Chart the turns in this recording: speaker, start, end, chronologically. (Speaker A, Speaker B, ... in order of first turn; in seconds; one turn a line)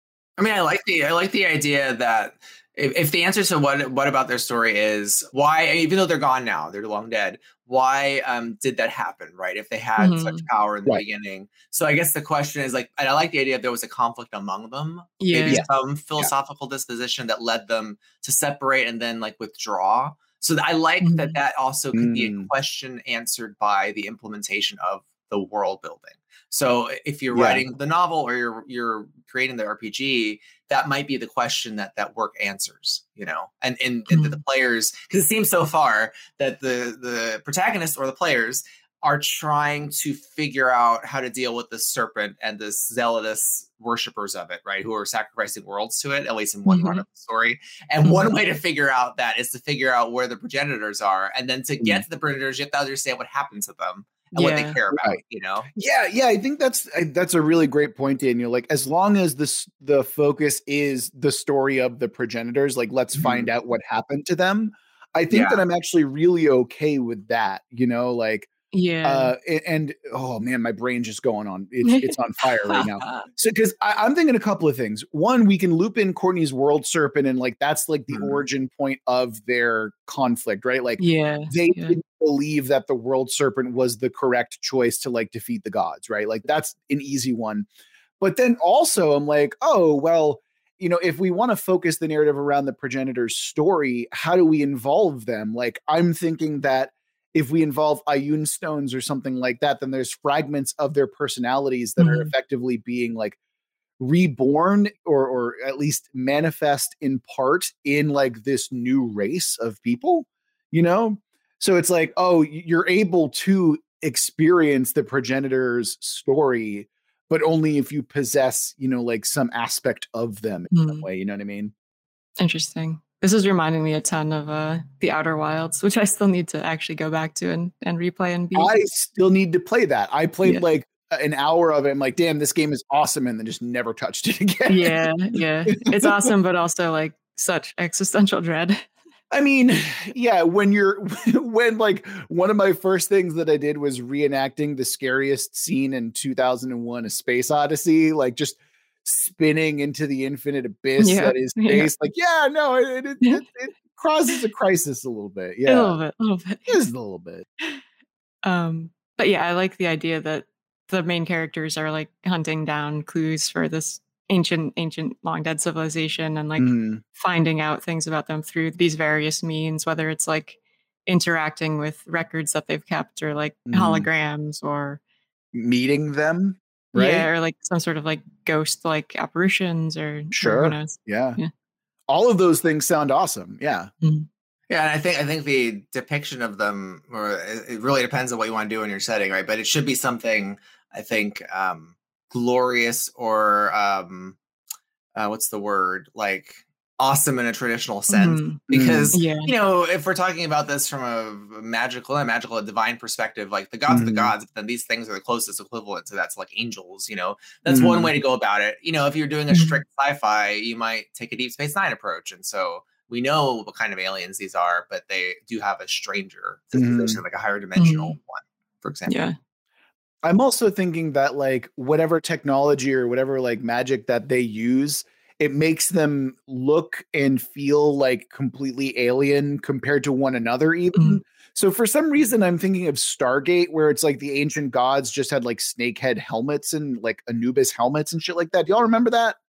Speaker A: 0.4-55.7
Speaker B: 10.0-10.4
Speaker B: 15.2-15.6
Speaker B: 21.0-21.4
Speaker C: 21.9-22.5
Speaker C: 27.3-27.6
Speaker B: 34.1-34.4
Speaker B: 46.7-47.0
Speaker B: 48.0-48.3
Speaker B: 54.3-54.8
Speaker C: 55.7-68.5
Speaker A: 63.1-63.5
Speaker A: 65.3-65.6
Speaker B: 68.7-69.3
Speaker C: 69.0-87.7
Speaker B: 71.8-72.1
Speaker A: 78.1-78.4
Speaker B: 81.0-82.0
Speaker C: 88.2-103.4
Speaker B: 102.0-102.3
Speaker C: 104.0-121.7
Speaker B: 120.7-121.0
Speaker B: 122.4-128.7
Speaker C: 128.5-135.1
Speaker B: 134.7-138.9
Speaker C: 135.7-136.3
Speaker C: 139.3-156.0
Speaker B: 151.0-151.9
Speaker B: 155.7-156.8
Speaker C: 156.7-157.4
Speaker B: 158.4-175.0
Speaker C: 166.6-167.0
Speaker C: 173.7-174.1
Speaker C: 175.5-177.3
Speaker B: 176.9-181.5
Speaker C: 180.3-181.4
Speaker C: 182.1-183.9
Speaker B: 184.0-184.3
Speaker A: 184.7-194.4
Speaker A: 195.1-219.2
Speaker B: 198.1-198.6
Speaker C: 198.7-199.2
Speaker B: 199.1-199.5
Speaker C: 203.9-204.3
Speaker C: 207.7-208.1
Speaker B: 209.5-209.8
Speaker C: 216.7-217.2
Speaker B: 217.8-218.2
Speaker B: 219.1-219.3
Speaker C: 220.2-239.4